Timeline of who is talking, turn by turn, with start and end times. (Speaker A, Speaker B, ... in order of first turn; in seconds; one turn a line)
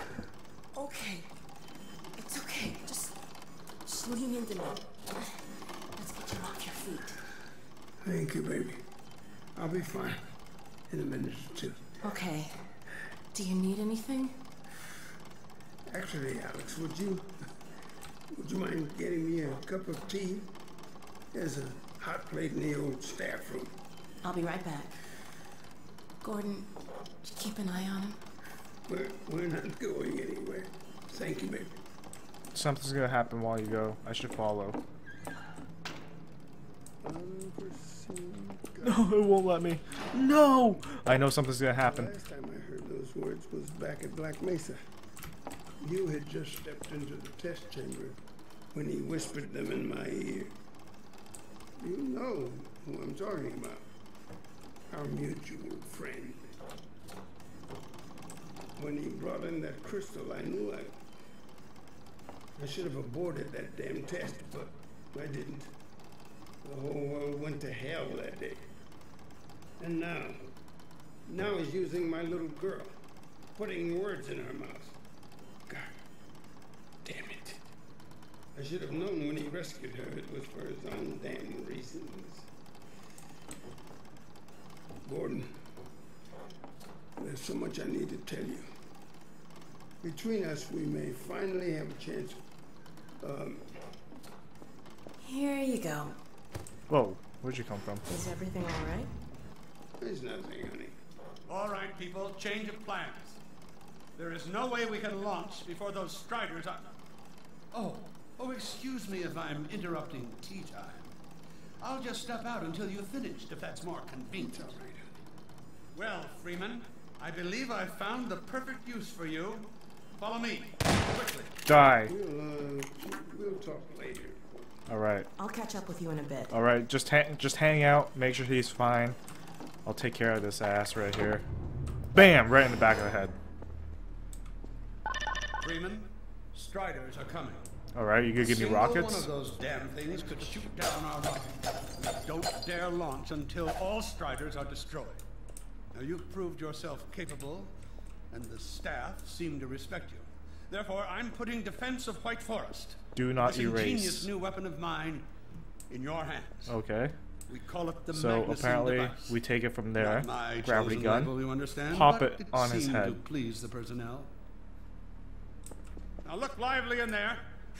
Speaker A: 0.8-1.3
Speaker A: 2.2-3.1
Speaker A: 3.9-5.4
Speaker A: 6.0-7.2
Speaker B: 8.0-8.8
Speaker B: 9.6-10.3
Speaker B: 10.9-11.9
Speaker A: 12.0-12.7
Speaker A: 13.3-14.4
Speaker B: 15.9-17.3
Speaker B: 18.3-20.5
Speaker B: 21.3-23.8
Speaker A: 24.2-25.0
Speaker A: 26.2-28.2
Speaker B: 28.9-31.8
Speaker C: 32.5-34.8
Speaker B: 37.0-39.0
Speaker C: 38.8-42.1
Speaker B: 41.8-44.8
Speaker B: 45.8-48.2
Speaker B: 48.7-50.6
Speaker B: 51.8-53.9
Speaker B: 54.9-56.5
Speaker B: 58.8-61.0
Speaker B: 62.6-65.7
Speaker B: 66.6-68.6
Speaker B: 69.8-70.4
Speaker B: 71.3-72.9
Speaker B: 73.5-75.0
Speaker B: 75.7-75.9
Speaker B: 77.0-77.6
Speaker B: 78.5-82.5
Speaker B: 85.0-85.5
Speaker B: 87.2-88.7
Speaker B: 90.0-92.4
Speaker B: 93.2-93.7
Speaker A: 95.2-96.2
Speaker C: 96.9-98.1
Speaker A: 98.1-99.1
Speaker B: 100.0-101.0
Speaker D: 101.5-103.4
Speaker D: 104.2-106.9
Speaker D: 107.7-111.1
Speaker D: 111.8-114.7
Speaker B: 114.4-115.1
Speaker D: 115.9-121.6
Speaker C: 121.7-122.1
Speaker B: 122.0-124.7
Speaker C: 124.9-125.3
Speaker A: 125.4-126.5
Speaker C: 126.5-129.2
Speaker C: 129.9-131.4
Speaker C: 132.1-133.4
Speaker D: 135.6-137.7
Speaker C: 137.9-139.3
Speaker D: 138.4-145.2
Speaker D: 145.9-147.7
Speaker D: 148.3-155.3
Speaker C: 153.2-154.3
Speaker D: 155.9-156.8
Speaker C: 156.7-157.1
Speaker D: 157.5-159.4
Speaker C: 158.1-161.3
Speaker D: 159.9-164.3
Speaker C: 161.9-163.2
Speaker D: 166.2-167.4